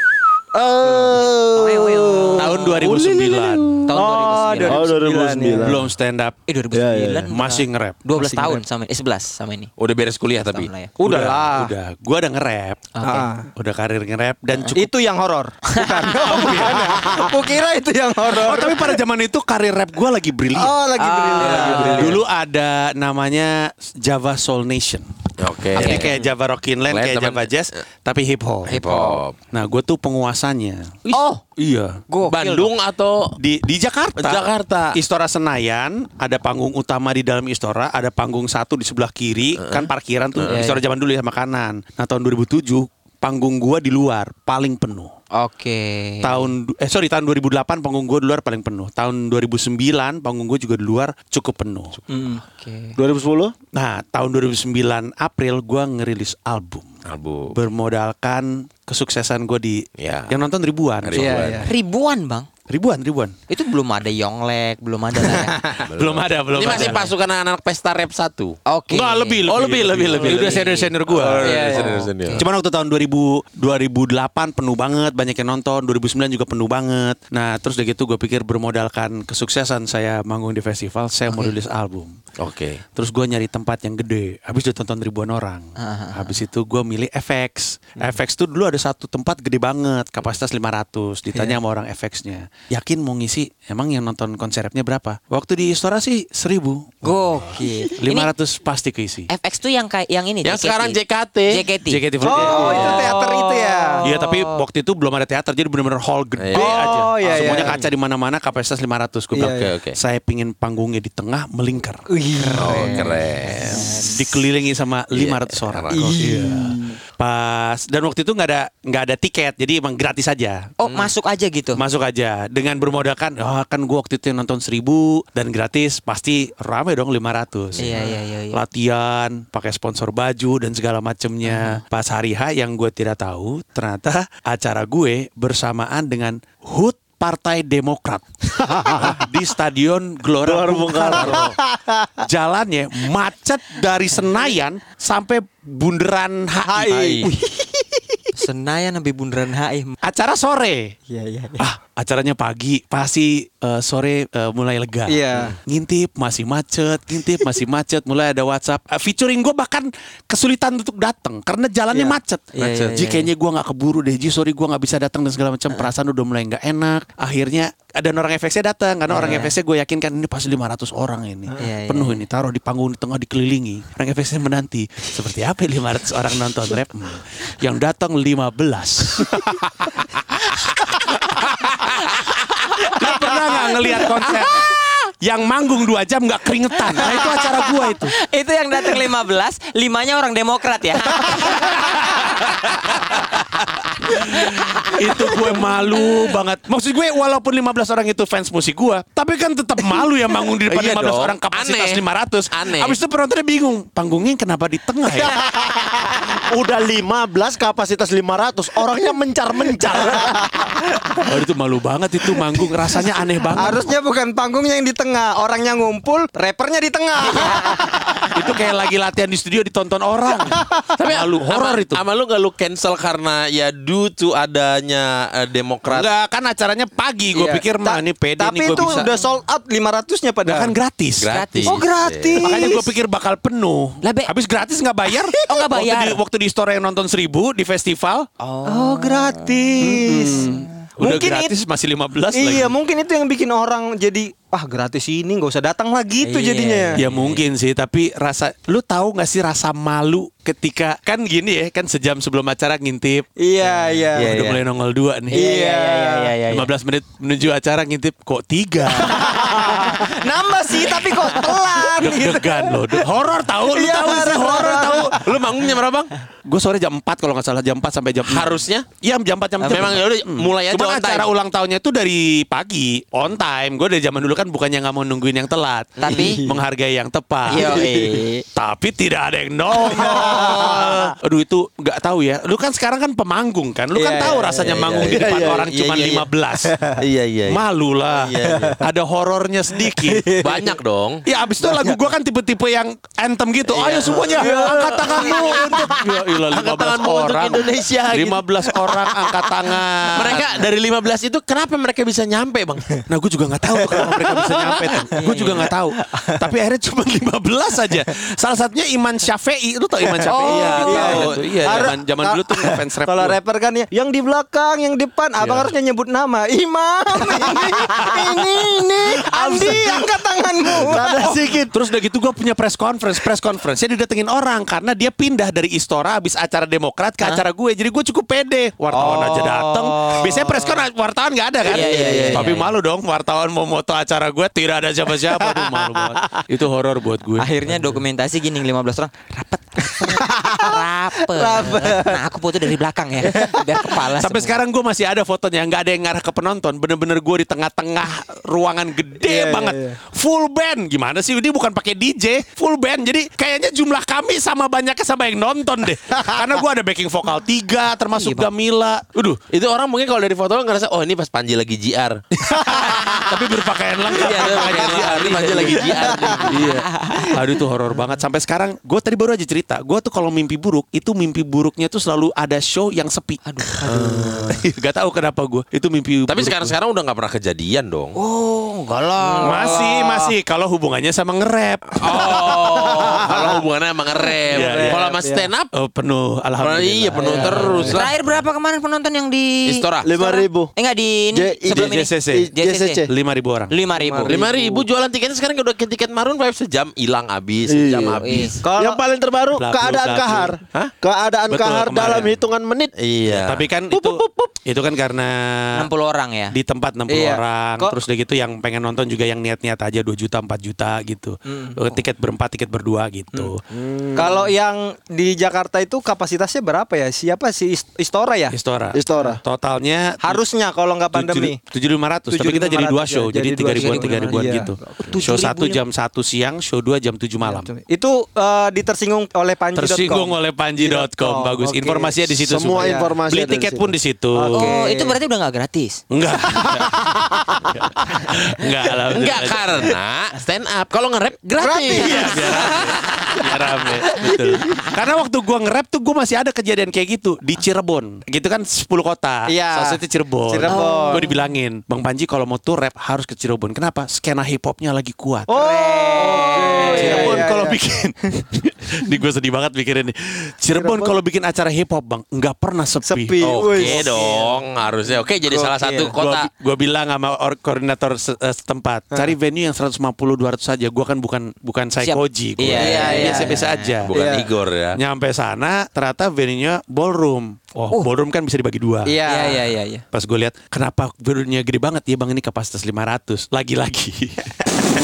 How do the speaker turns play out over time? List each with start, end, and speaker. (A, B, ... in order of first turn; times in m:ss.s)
0:00.5-0:05.8 A
0:01.5-0:02.8 B
0:02.4-0:03.8 C
0:03.9-0:04.9 B
0:03.9-0:05.8 D
0:05.6-0:06.4 C
0:06.5-0:09.7 B
0:06.7-0:07.3 A
0:07.3-0:08.0 C
0:08.1-0:08.6 D
0:09.8-0:10.7 E
0:10.4-0:10.9 B
0:11.0-0:11.7 D
0:11.0-0:12.9 C
0:12.9-0:13.3 B
0:13.0-0:13.5 D
0:13.6-0:14.9 C
0:14.7-0:19.0 D
0:15.7-0:16.2 B
0:16.3-0:17.2 C
0:18.3-0:20.8 C
0:20.5-0:22.2 D
0:21.0-0:22.2 B
0:21.4-0:25.1 C
0:25.4-0:26.3 E
0:25.7-0:28.8 C
0:25.8-0:26.1 B
0:26.9-0:27.8 E
0:28.7-0:29.2 B
0:28.7-0:29.4 E
0:29.5-0:31.0 C
0:31.1-0:31.4 B
0:31.6-0:32.0 C
0:32.1-0:32.7 B
0:32.2-0:33.4 E
0:33.4-0:45.1 C
0:34.2-0:35.0 E
0:39.6-0:40.6 E
0:40.5-0:40.8 B
0:45.3-0:46.5 B
0:46.2-0:52.0 C
0:52.1-0:52.4 D
0:52.4-0:53.0 B
0:53.0-0:53.5 A
0:53.7-0:56.9 C
0:57.0-0:57.6 E
0:57.5-1:01.6 C
1:00.0-1:00.4 E
1:01.0-1:01.7 E
1:01.2-1:01.7 D
1:01.6-1:02.5 B
1:02.7-1:03.3 C
1:03.5-1:05.8 B
1:05.8-1:08.6 E
1:05.9-1:07.1 C
1:06.7-1:06.9 B
1:08.7-1:09.4 B
1:08.9-1:11.7 C
1:09.4-1:12.4 E
1:10.2-1:12.4 B
1:11.4-1:12.0 D
1:12.4-1:22.2 C
1:21.3-1:21.5 B
1:22.4-1:22.8 E
1:22.9-1:37.0 C
1:25.8-1:26.3 B
1:31.3-1:31.6 B
1:37.0-1:38.3 B
1:38.0-1:39.3 C
1:39.3-1:42.0 B
1:40.4-1:41.6 E
1:41.9-2:00.7 C
1:42.2-1:44.0 D
1:42.2-1:43.1 E
1:43.6-1:44.3 B
1:46.4-1:47.8 E
1:46.5-1:47.8 D
1:49.3-1:49.7 D
1:49.4-1:50.0 E
1:52.1-1:53.2 D
1:52.6-1:53.9 E
1:53.5-1:54.2 B
1:55.1-1:56.2 E
1:55.9-1:57.0 D
2:00.8-2:01.8 B
2:00.8-2:01.1 E
2:01.8-2:21.5 C
2:07.8-2:08.6 B
2:11.4-2:11.8 B
2:18.6-2:19.2 A
2:20.4-2:21.5 A
2:21.0-2:22.0 D
2:22.2-2:27.3 C
2:26.6-2:28.2 D
2:27.0-2:27.3 E
2:28.4-2:30.0 B
2:30.0-2:30.9 C
2:31.1-2:31.6 D
2:31.6-3:00.0 C
2:35.1-2:35.6 D
2:42.5-2:43.3 B
2:49.1-2:49.5 B
2:51.6-2:52.2 B
3:00.6-3:01.9 C
3:02.8-3:08.1 C
3:03.0-3:03.7 D
3:07.0-3:13.2 B
3:11.4-3:12.8 C
3:14.0-3:25.4 C
3:14.1-3:15.0 B
3:20.7-3:23.0 E
3:25.4-3:30.6 A
3:29.8-3:30.3 C
3:31.2-3:33.8 C
3:33.6-3:38.2 D
3:38.3-3:42.0 C
3:41.0-3:46.1 E
3:45.9-3:49.1 C
3:47.3-3:50.8 D
3:50.4-3:51.3 C
3:51.2-3:52.5 E
3:51.3-3:52.4 B
3:51.6-3:52.8 D
3:52.4-3:58.3 C
3:54.0-3:54.3 B
3:55.4-3:56.2 B
3:58.4-4:00.8 B
3:58.6-4:01.5 D
3:59.8-4:02.7 C
4:02.3-4:07.0 D
4:06.2-4:07.4 B
4:06.9-4:13.3 C
4:13.4-4:14.5 D
4:13.6-4:14.6 B
4:14.1-4:15.4 C
4:15.3-4:16.4 D
4:15.3-4:16.7 B
4:16.5-4:20.1 C
4:18.9-4:23.1 D
4:20.9-4:25.4 C
4:23.6-4:25.3 D
4:25.0-4:26.1 E
4:26.4-4:46.7 C
4:28.2-4:28.9 E
4:29.6-4:31.3 E
4:36.0-4:36.4 B
4:36.1-4:36.6 D
4:37.5-4:38.4 B
4:37.5-4:38.3 E
4:39.8-4:41.1 D
4:43.9-4:44.9 D
4:44.6-4:46.2 E
4:45.1-4:45.6 A
4:46.6-4:47.0 D
4:47.0-4:48.8 E
4:47.5-4:50.3 C
4:48.5-4:48.8 D
4:49.8-4:50.8 D
4:50.4-4:51.2 E
4:51.2-5:00.6 C
4:51.6-4:52.0 D
4:53.8-4:56.0 D
4:53.9-4:59.3 E
5:00.1-5:03.0 E
5:03.1-5:13.4 C
5:03.8-5:05.5 D
5:05.2-5:05.7 B
5:06.0-5:06.4 D
5:10.0-5:18.5 D
5:10.2-5:11.3 B
5:10.8-5:11.8 E
5:15.4-5:15.7 C
5:17.5-5:19.9 A
5:19.1-5:21.4 D
5:19.4-5:19.9 C
5:20.7-5:21.7 A
5:20.9-5:37.9 C
5:28.9-5:30.8 D
5:31.6-5:32.7 B
5:31.7-5:32.5 D
5:35.4-5:36.1 D
5:37.4-5:44.6 B
5:39.9-5:40.8 D
5:41.3-5:42.2 D
5:43.2-5:43.9 D
5:43.8-5:59.3 C
5:49.2-5:50.0 D
5:58.1-5:58.5 B
5:59.3-6:02.2 E
6:02.4-6:13.4 C
6:02.6-6:03.1 D
6:04.2-6:06.7 E
6:06.1-6:06.5 D
6:06.6-6:07.4 B
6:13.4-6:13.8 B
6:13.8-6:14.5 D
6:14.0-6:14.6 A
6:14.0-6:14.6 E
6:14.7-6:16.7 C
6:16.3-6:18.2 E
6:18.2-6:20.3 D
6:19.2-6:19.9 B
6:19.4-6:23.0 C
6:22.0-6:25.7 E
6:22.8-6:23.6 A
6:24.5-6:25.1 C
6:24.5-6:25.5 D
6:25.7-6:27.8 C
6:26.6-6:28.2 E
6:27.1-6:28.0 D
6:27.3-6:33.0 B
6:29.6-6:30.1 E
6:30.0-6:30.7 A
6:31.3-6:33.1 A
6:31.7-6:32.5 C
6:33.1-6:33.7 C
6:33.7-6:34.4 B
6:33.9-6:34.8 D
6:34.2-6:38.6 E
6:37.7-6:38.2 A
6:37.9-6:38.6 B
6:38.6-6:39.0 D
6:38.7-6:42.9 A
6:39.6-6:40.6 C
6:41.5-6:42.3 C
6:43.0-6:43.6 E
6:43.3-6:45.9 C
6:43.9-6:44.5 A
6:45.7-6:46.6 B
6:46.5-6:53.6 C
6:47.1-6:48.0 D
6:51.5-6:51.8 D
6:53.7-6:54.4 A
6:54.1-6:58.5 D
6:58.5-7:00.4 C
6:58.9-6:59.4 A
6:59.1-6:59.4 D
7:00.2-7:01.6 D
7:01.1-7:07.7 C
7:02.3-7:05.2 D
7:03.7-7:04.5 B
7:05.0-7:05.8 B
7:07.4-7:12.1 D
7:09.7-7:14.7 C
7:12.3-7:13.9 A
7:12.8-7:13.2 D
7:14.3-7:15.2 D
7:14.5-7:16.0 B
7:16.1-7:17.0 C
7:17.1-7:17.5 A
7:17.7-7:20.0 C
7:19.1-7:22.9 E
7:21.6-7:23.5 D
7:21.9-7:35.5 C
7:24.2-7:24.8 D
7:29.5-7:31.3 D
7:30.7-7:31.3 B
7:35.4-7:37.8 D
7:35.5-7:37.4 B
7:36.7-7:44.0 C
7:40.8-7:41.1 A
7:43.0-7:44.6 D
7:43.4-7:46.5 E
7:45.4-7:46.1 D
7:46.1-7:54.4 C
7:52.0-7:53.9 B
7:52.6-7:55.0 E
7:52.8-7:53.5 D
7:54.1-7:54.5 D
7:55.0-7:59.2 C
7:59.0-7:59.7 D
7:59.2-8:00.0 B
8:00.1-8:04.6 C